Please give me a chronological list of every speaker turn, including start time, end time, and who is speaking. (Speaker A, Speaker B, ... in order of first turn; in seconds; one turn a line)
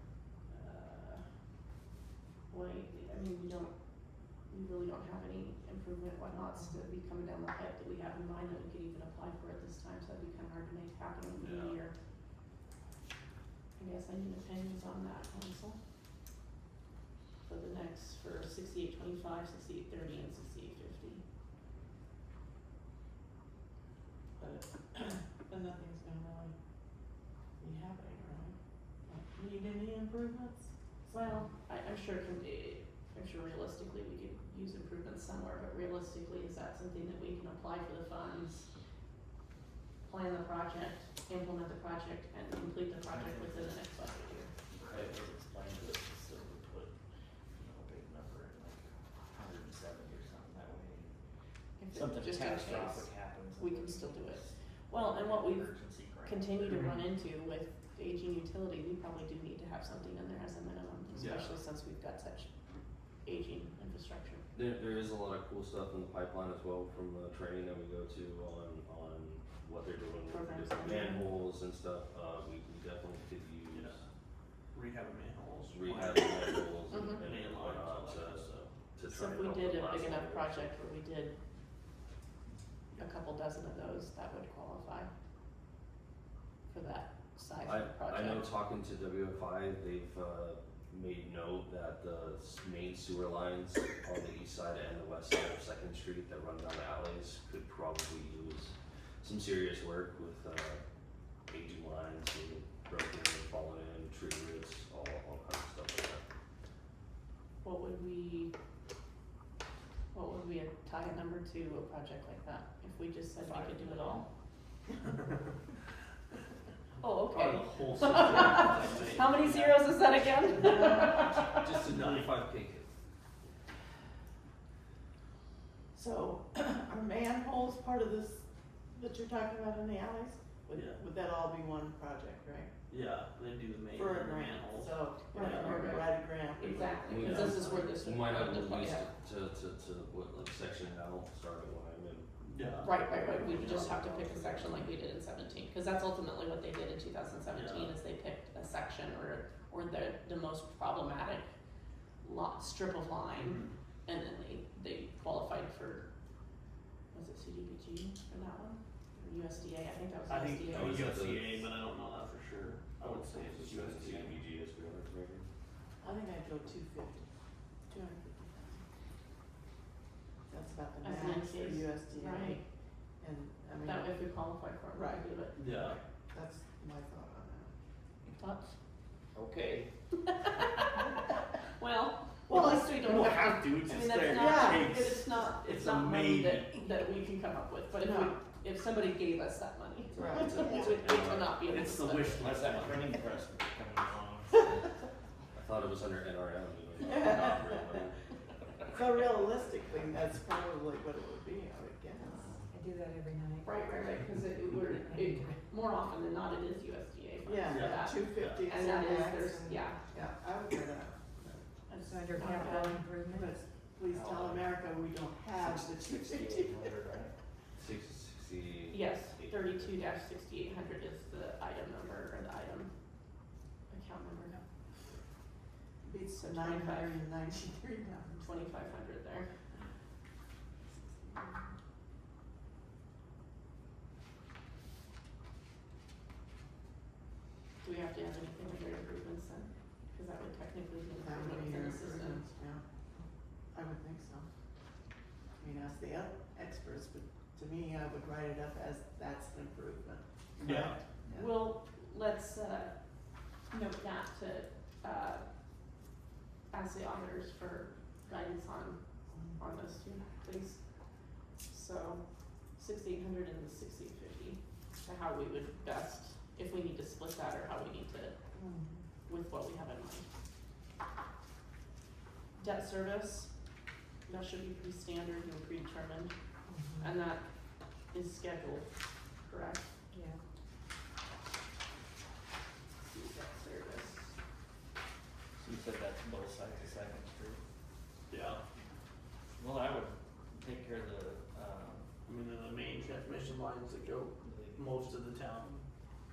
Speaker A: 0.5-1.2
Speaker A: 2.5-3.7
Speaker A: 4.5-11.9
Speaker B: 11.4-11.8
Speaker A: 13.8-15.8
Speaker A: 17.4-21.2
Speaker C: 24.4-26.5
Speaker C: 27.6-28.5
Speaker C: 29.1-31.4
Speaker A: 31.1-38.7
Speaker A: 40.0-44.5
Speaker D: 43.1-43.7
Speaker D: 44.7-46.9
Speaker D: 47.5-51.2
Speaker A: 51.8-55.7
Speaker D: 51.9-56.9
Speaker A: 56.2-62.5
Speaker B: 61.1-61.6
Speaker A: 63.2-64.4
Speaker E: 64.5-74.0
Speaker A: 70.3-71.3
Speaker B: 73.7-74.0
Speaker B: 74.7-78.7
Speaker E: 75.7-80.7
Speaker A: 76.9-77.2
Speaker A: 79.0-81.4
Speaker A: 83.0-85.1
Speaker A: 86.7-88.5
Speaker E: 87.6-100.8
Speaker E: 101.5-106.2
Speaker A: 107.6-108.5
Speaker A: 110.1-114.2
Speaker A: 117.0-121.8
Speaker B: 117.3-119.9
Speaker E: 120.8-122.9
Speaker B: 121.7-122.4
Speaker C: 125.9-128.4
Speaker C: 128.9-132.7
Speaker B: 130.7-131.0
Speaker B: 132.9-135.8
Speaker C: 133.9-137.8
Speaker A: 135.3-139.0
Speaker E: 137.1-142.3
Speaker B: 137.3-137.6
Speaker B: 142.4-143.9
Speaker A: 142.8-151.5
Speaker E: 143.1-144.9
Speaker B: 147.5-147.9
Speaker A: 152.2-156.1
Speaker B: 153.3-153.7
Speaker A: 157.1-161.0
Speaker B: 160.3-164.4
Speaker E: 160.6-161.7
Speaker E: 163.0-165.5
Speaker C: 166.0-167.3
Speaker C: 167.9-168.8
Speaker C: 170.5-172.6
Speaker A: 171.0-172.6
Speaker C: 173.2-174.2
Speaker A: 173.8-175.9
Speaker C: 174.9-175.4
Speaker B: 175.5-176.0
Speaker C: 176.3-177.7
Speaker A: 178.4-178.7
Speaker D: 179.3-179.9
Speaker A: 180.3-181.1
Speaker A: 181.8-192.7
Speaker C: 182.5-183.0
Speaker B: 182.6-186.8
Speaker C: 184.2-185.2
Speaker C: 188.0-188.4
Speaker E: 190.1-191.8
Speaker C: 190.1-190.6
Speaker B: 191.7-193.1
Speaker D: 192.3-195.0
Speaker E: 195.5-198.2
Speaker C: 197.0-197.9
Speaker C: 198.9-202.5
Speaker D: 202.2-202.7
Speaker F: 202.7-203.9
Speaker A: 203.6-210.0
Speaker F: 204.9-205.5
Speaker C: 207.4-211.2
Speaker B: 207.7-208.7
Speaker A: 211.9-213.0
Speaker F: 212.0-213.5
Speaker C: 213.3-217.0
Speaker D: 214.1-214.7
Speaker D: 215.6-217.3
Speaker E: 217.8-220.0
Speaker A: 218.9-222.9
Speaker A: 223.9-224.6
Speaker C: 226.0-228.4
Speaker A: 226.3-227.2
Speaker A: 228.4-229.5
Speaker C: 231.2-231.5
Speaker A: 237.8-242.4
Speaker C: 241.2-242.8
Speaker C: 243.7-244.5
Speaker C: 245.6-251.5
Speaker B: 250.6-251.0
Speaker A: 250.7-252.9
Speaker A: 253.7-255.4
Speaker A: 256.7-259.0
Speaker A: 259.6-260.8
Speaker A: 261.5-262.2
Speaker A: 262.8-268.4
Speaker A: 269.3-270.3
Speaker A: 272.6-273.5
Speaker A: 274.2-276.3
Speaker F: 276.7-277.0
Speaker A: 277.0-277.4
Speaker A: 278.1-278.9
Speaker A: 279.4-279.9
Speaker F: 280.1-280.4
Speaker A: 283.0-284.3
Speaker D: 285.6-287.6
Speaker B: 288.3-288.6
Speaker D: 289.6-292.1
Speaker B: 292.2-295.8
Speaker D: 294.4-294.9